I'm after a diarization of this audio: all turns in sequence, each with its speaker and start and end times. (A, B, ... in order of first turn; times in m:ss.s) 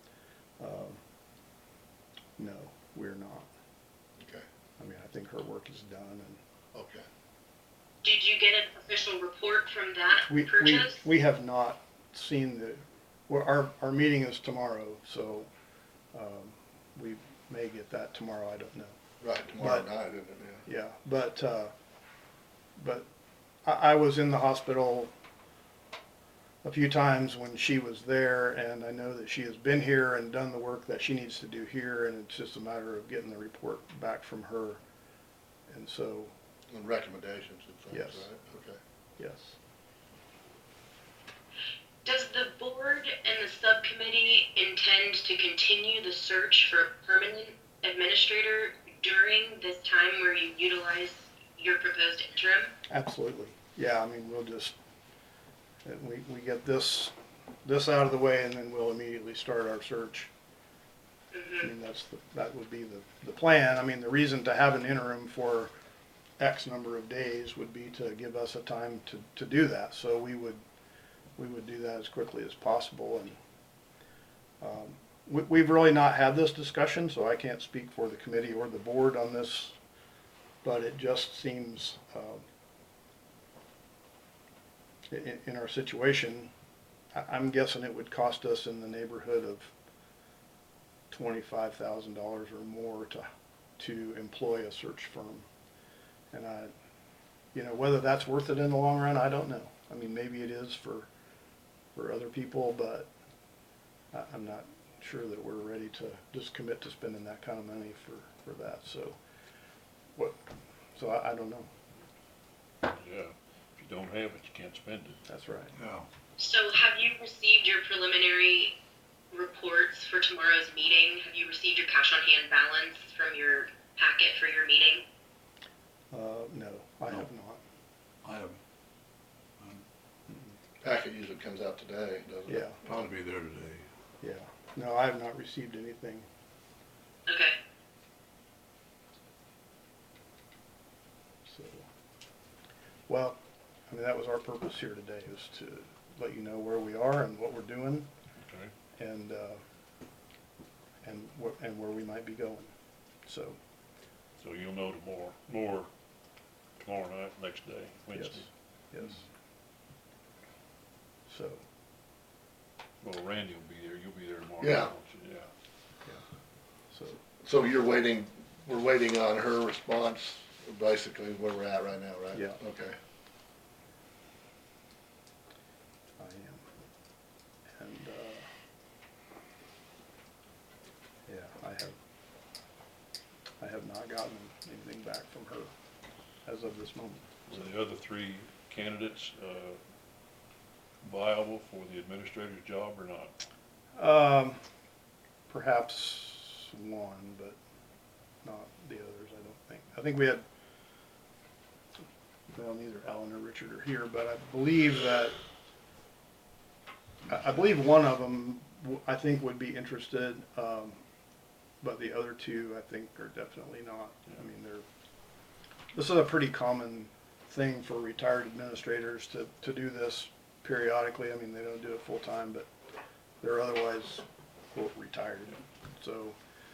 0:00.6-0:01.0 A
0:02.4-0:03.5 A
0:04.8-0:06.4 A
0:06.7-0:07.0 B
0:08.0-0:11.0 C
0:10.2-0:15.5 A
0:16.1-0:18.9 A
0:19.2-0:20.6 B
0:19.6-0:19.9 A
0:20.7-0:21.7 A
0:22.8-0:23.1 A
0:23.6-0:25.1 A
0:26.6-0:34.8 A
0:35.7-0:36.3 A
0:36.7-0:38.8 B
0:37.9-0:38.3 A
0:39.2-0:39.6 A
0:42.0-0:52.7 C
0:52.9-0:54.8 A
0:55.8-0:57.1 A
0:57.6-1:00.3 A
1:01.3-1:01.7 C
1:01.6-1:05.7 A
1:06.4-1:10.6 A
1:11.4-1:13.4 A
1:14.6-1:19.8 A
1:20.6-1:22.4 A
1:25.1-1:26.5 A
1:27.2-1:29.7 A
1:31.1-1:33.3 A
1:33.8-1:35.5 A
1:36.3-1:36.7 A
1:37.5-1:41.1 A
1:42.0-1:43.1 A
1:44.1-1:49.2 A
1:51.0-1:51.7 A
1:52.9-1:55.2 D
1:55.3-1:55.7 A
1:55.8-1:56.1 E
1:56.4-1:58.7 C
1:59.3-2:05.0 C
2:06.1-2:07.6 A
2:08.2-2:08.6 E
2:09.6-2:09.8 E
2:10.8-2:13.1 B
2:12.5-2:12.8 A
2:12.9-2:13.8 E
2:14.2-2:16.3 A
2:17.3-2:17.6 C
2:21.5-2:21.9 A
2:23.1-2:23.4 A
2:23.9-2:28.1 A
2:29.0-2:29.6 A
2:31.0-2:32.7 A
2:33.3-2:33.6 A
2:34.4-2:35.9 D
2:36.8-2:38.5 D
2:38.1-2:39.2 A
2:41.3-2:41.6 A
2:43.0-2:45.5 D
2:44.6-2:44.9 B
2:46.9-2:47.2 A
2:47.4-2:53.0 B
2:52.3-2:52.6 A
2:56.2-2:56.6 A
2:57.8-2:58.4 A
3:01.3-3:02.0 A
3:03.6-3:05.7 A
3:06.5-3:07.3 A
3:07.5-3:09.8 D
3:11.0-3:13.3 D
3:14.0-3:14.6 A
3:15.5-3:17.6 A
3:18.4-3:20.4 A
3:22.5-3:25.4 A
3:27.3-3:31.0 A
3:31.8-3:34.8 A
3:35.9-3:42.7 A
3:43.4-3:46.4 A